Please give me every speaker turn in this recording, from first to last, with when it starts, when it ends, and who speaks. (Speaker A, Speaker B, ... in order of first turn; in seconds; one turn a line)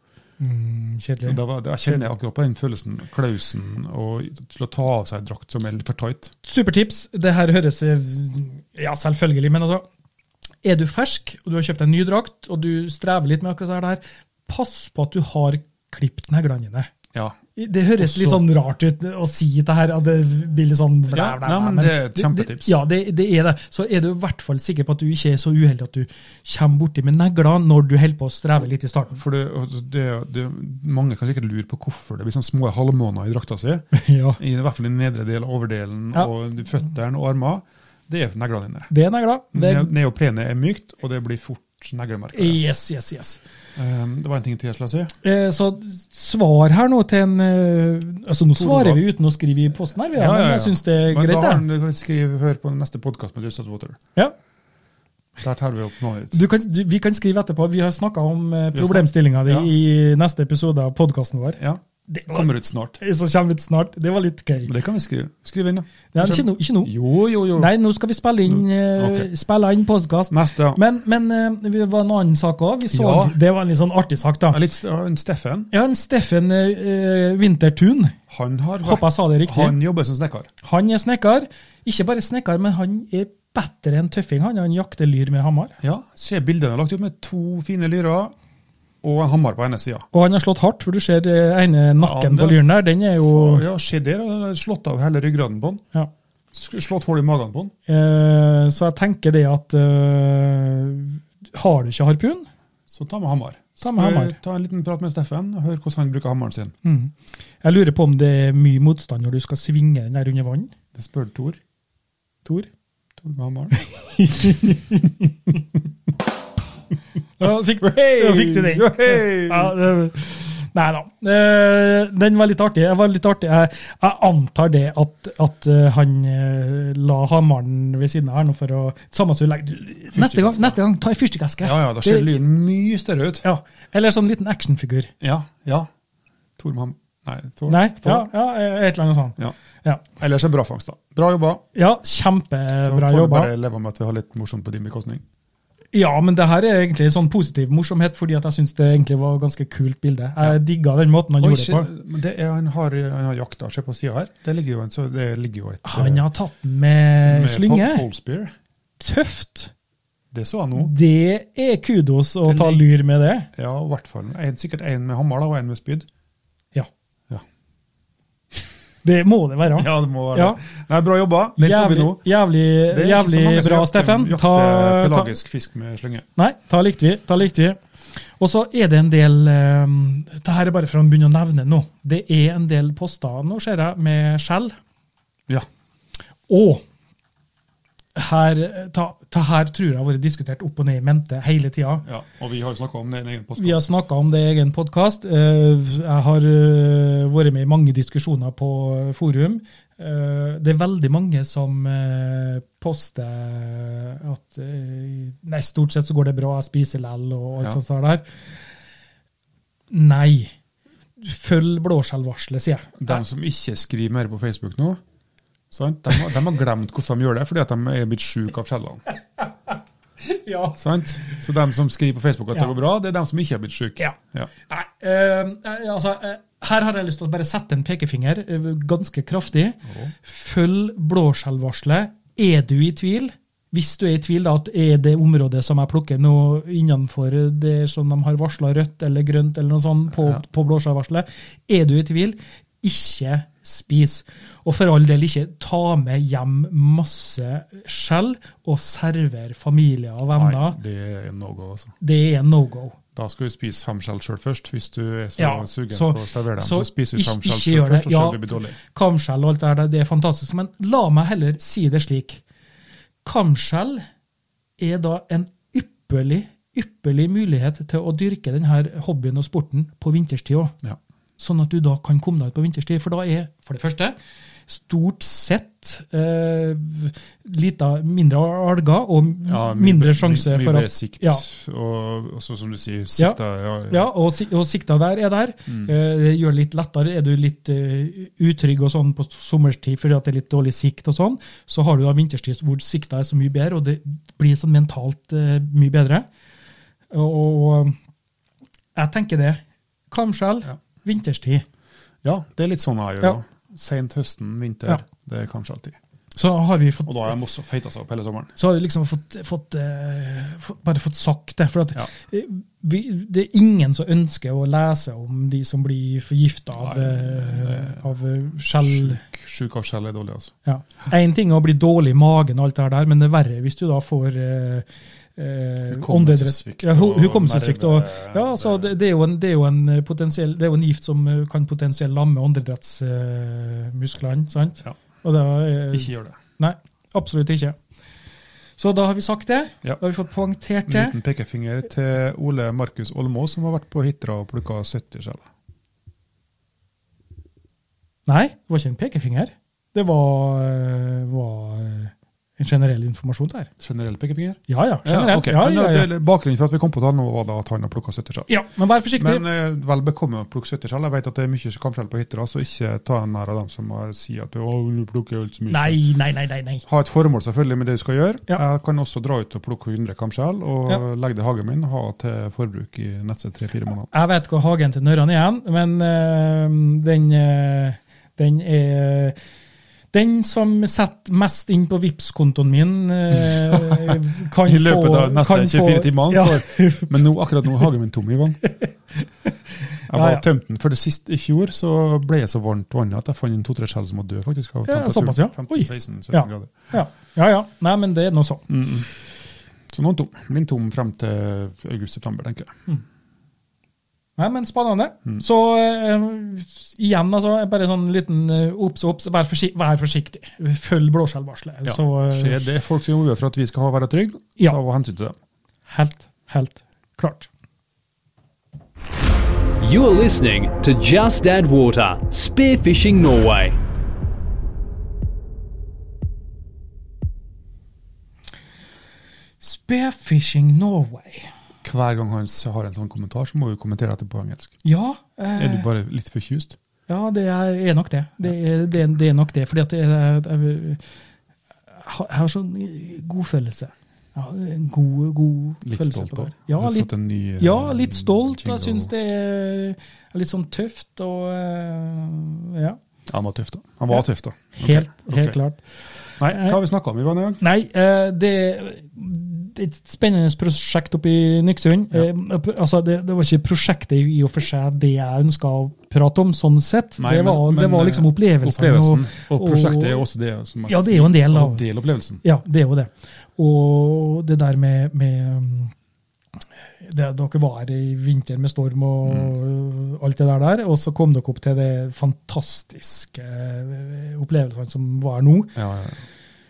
Speaker A: 0.4-2.0
Speaker B: 1.2-6.3
Speaker A: 6.4-9.8
Speaker A: 10.6-16.9
Speaker A: 17.6-29.2
Speaker B: 18.0-18.4
Speaker B: 21.1-22.8
Speaker B: 29.1-33.9
Speaker A: 33.9-34.4
Speaker B: 34.4-38.9
Speaker A: 38.9-39.9
Speaker B: 39.5-42.6
Speaker A: 42.3-43.4
Speaker B: 43.8-45.1
Speaker A: 45.2-51.6
Speaker B: 48.5-49.0
Speaker B: 50.1-54.0
Speaker B: 55.4-56.4
Speaker A: 56.3-64.7
Speaker B: 58.7-59.7
Speaker B: 61.6-63.0
Speaker B: 64.6-67.7
Speaker A: 66.1-66.9
Speaker A: 67.5-74.6
Speaker B: 68.5-69.3
Speaker B: 70.3-70.8
Speaker B: 72.9-73.4
Speaker B: 74.5-75.7
Speaker A: 75.7-78.2
Speaker B: 78.3-80.5
Speaker A: 78.8-79.8
Speaker A: 80.6-85.8
Speaker B: 85.8-88.3
Speaker B: 89.0-90.1
Speaker A: 90.1-93.6
Speaker B: 92.0-95.8
Speaker B: 96.5-97.7
Speaker A: 97.9-102.5
Speaker B: 102.9-106.8
Speaker A: 103.8-104.4
Speaker A: 106.8-110.7
Speaker B: 111.0-111.6
Speaker B: 113.2-113.8
Speaker A: 113.7-115.3
Speaker B: 114.4-114.7
Speaker A: 117.4-132.3
Speaker B: 117.4-119.8
Speaker B: 130.1-130.8
Speaker B: 131.6-133.4
Speaker A: 133.4-135.1
Speaker B: 135.2-135.9
Speaker B: 136.6-138.3
Speaker A: 137.7-140.0
Speaker B: 140.2-141.6
Speaker A: 141.7-143.5
Speaker B: 142.8-145.2
Speaker A: 145.9-151.9
Speaker B: 151.4-156.2
Speaker A: 155.8-158.1
Speaker B: 157.2-158.5
Speaker A: 159.0-159.7
Speaker B: 160.3-160.9
Speaker A: 160.7-163.5
Speaker B: 162.5-162.8
Speaker B: 163.5-166.1
Speaker A: 169.0-170.6
Speaker B: 169.7-172.2
Speaker A: 171.6-175.3
Speaker B: 172.9-176.3
Speaker A: 176.4-177.8
Speaker A: 178.4-184.7
Speaker A: 186.5-186.8
Speaker A: 188.1-192.1
Speaker B: 192.1-193.8
Speaker A: 193.6-208.2
Speaker A: 209.9-210.5
Speaker A: 211.2-213.2
Speaker B: 213.0-215.0
Speaker B: 215.7-219.0
Speaker A: 220.2-221.3
Speaker B: 220.8-224.5
Speaker A: 224.7-250.8
Speaker B: 229.9-230.1
Speaker B: 250.3-251.9
Speaker A: 252.0-253.0
Speaker B: 253.2-258.8
Speaker A: 255.4-262.4
Speaker A: 263.2-264.1
Speaker A: 264.8-270.7
Speaker A: 271.4-274.1
Speaker A: 274.7-281.4
Speaker B: 279.4-284.1
Speaker A: 283.2-296.3
Speaker A: 297.1-297.9
Speaker A: 298.9-301.6
Speaker B: 302.2-306.0
Speaker A: 306.3-307.4
Speaker B: 307.1-308.6
Speaker A: 308.6-319.2
Speaker B: 316.8-318.0
Speaker B: 318.8-320.5
Speaker A: 320.6-337.8
Speaker B: 325.9-328.9
Speaker B: 335.9-336.4
Speaker A: 338.8-341.2
Speaker B: 340.9-345.5
Speaker A: 348.3-353.7
Speaker B: 353.8-358.5
Speaker A: 354.7-356.1
Speaker A: 358.5-359.4
Speaker B: 359.2-366.0
Speaker A: 365.7-366.8
Speaker B: 366.9-374.1
Speaker A: 374.1-379.4
Speaker A: 380.1-387.3
Speaker B: 383.3-388.6
Speaker A: 388.6-390.4
Speaker B: 390.1-396.9
Speaker A: 394.9-398.6
Speaker B: 398.7-399.1
Speaker B: 399.9-402.7
Speaker A: 404.4-412.7
Speaker B: 411.9-415.4
Speaker A: 415.9-417.5
Speaker C: 419.8-423.8
Speaker A: 429.6-431.5
Speaker B: 431.8-434.7
Speaker A: 434.8-435.9
Speaker B: 435.6-436.8
Speaker A: 437.1-441.0
Speaker A: 441.9-453.0
Speaker B: 445.8-449.1
Speaker B: 453.3-455.6
Speaker A: 454.7-455.8
Speaker B: 456.4-457.6
Speaker A: 456.5-456.8
Speaker A: 457.6-470.2
Speaker B: 467.2-472.4
Speaker A: 470.9-471.8
Speaker A: 472.4-475.9
Speaker A: 477.0-485.8
Speaker B: 485.7-486.2